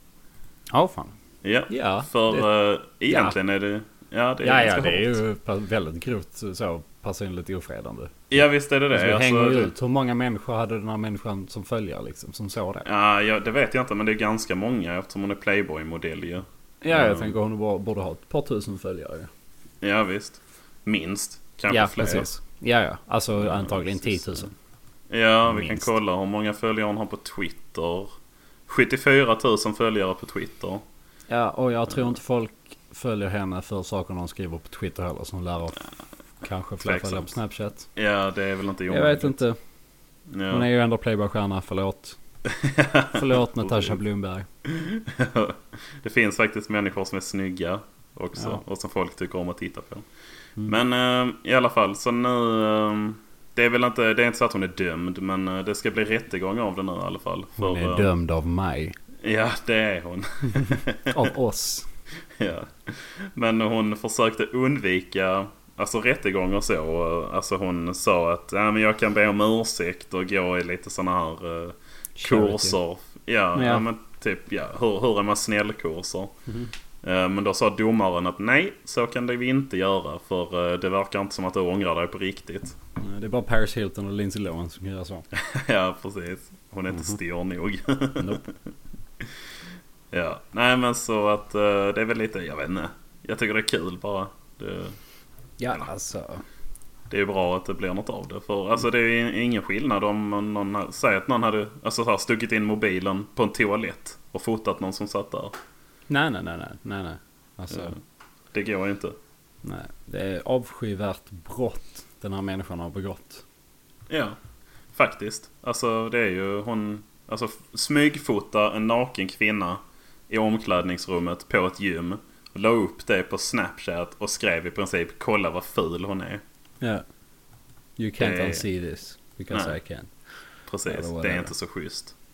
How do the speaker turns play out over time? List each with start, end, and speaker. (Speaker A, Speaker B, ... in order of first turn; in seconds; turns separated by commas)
Speaker A: 0.7-1.1, Speaker B: 1.4-5.2, Speaker A: 1.7-2.5, Speaker A: 3.1-3.4, Speaker A: 4.4-8.1, Speaker B: 8.3-9.7, Speaker A: 8.9-12.9, Speaker B: 12.8-17.3, Speaker A: 16.8-19.3, Speaker B: 19.8-22.3, Speaker A: 21.7-24.5, Speaker B: 23.4-24.4, Speaker B: 25.1-28.1, Speaker A: 25.5-25.9, Speaker B: 28.7-30.8, Speaker A: 31.3-35.9, Speaker A: 36.4-37.9, Speaker B: 36.8-37.4, Speaker B: 38.0-39.4, Speaker A: 38.9-39.6, Speaker B: 40.3-40.7, Speaker A: 40.5-42.2, Speaker B: 42.5-43.9, Speaker A: 43.1-44.5, Speaker B: 44.6-50.1, Speaker B: 50.7-58.1, Speaker A: 57.6-59.0, Speaker B: 59.2-61.3, Speaker A: 60.5-61.9, Speaker B: 62.4-76.3, Speaker A: 72.2-72.8, Speaker A: 73.5-73.8, Speaker B: 77.0-82.8, Speaker A: 83.0-85.3, Speaker B: 85.3-88.5, Speaker B: 90.1-95.0, Speaker A: 95.6-96.4, Speaker B: 97.1-105.5, Speaker A: 106.1-108.0, Speaker B: 107.7-108.0, Speaker B: 108.5-109.2, Speaker A: 109.6-113.4, Speaker B: 114.1-114.4, Speaker B: 114.9-126.4, Speaker A: 128.0-130.1, Speaker B: 128.2-128.7, Speaker B: 129.5-129.8, Speaker B: 130.7-132.1, Speaker A: 130.9-131.5